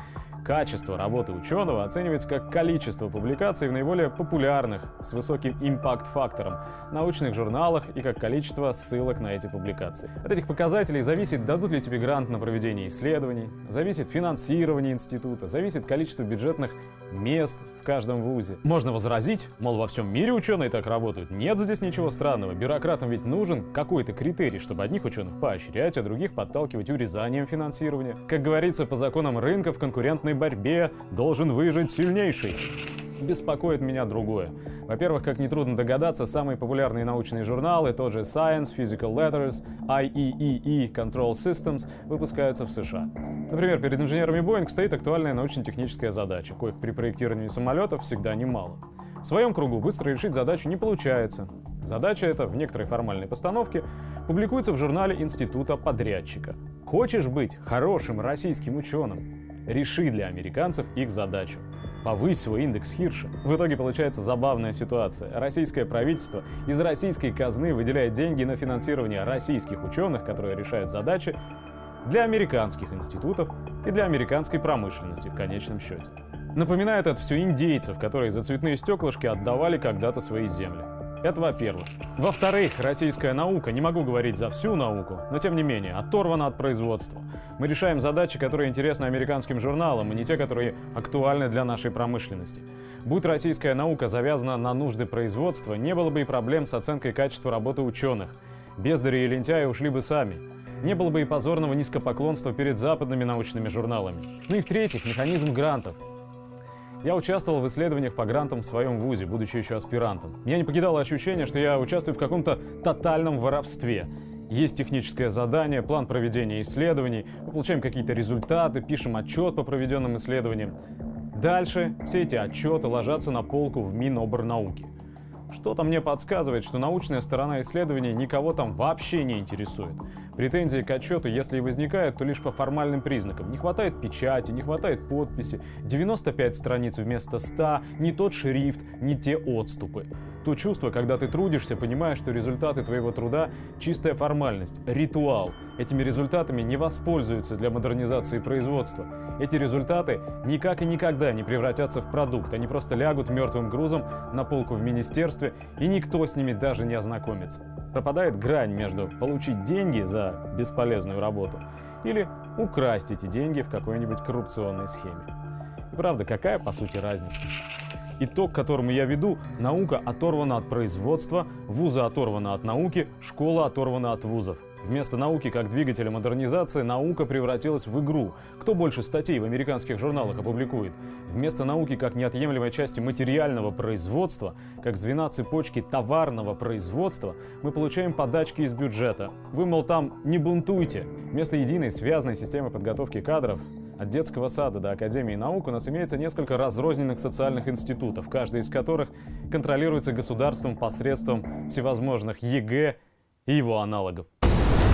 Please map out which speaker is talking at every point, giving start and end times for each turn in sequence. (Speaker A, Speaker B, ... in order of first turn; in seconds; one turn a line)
Speaker A: 0.4-32.7
Speaker A: 33.2-71.4
Speaker A: 72.0-106.0
Speaker A: 107.0-120.7
Speaker A: 121.3-124.9
Speaker A: 125.5-165.3
Speaker A: 165.9-167.5
Speaker A: 168.2-204.3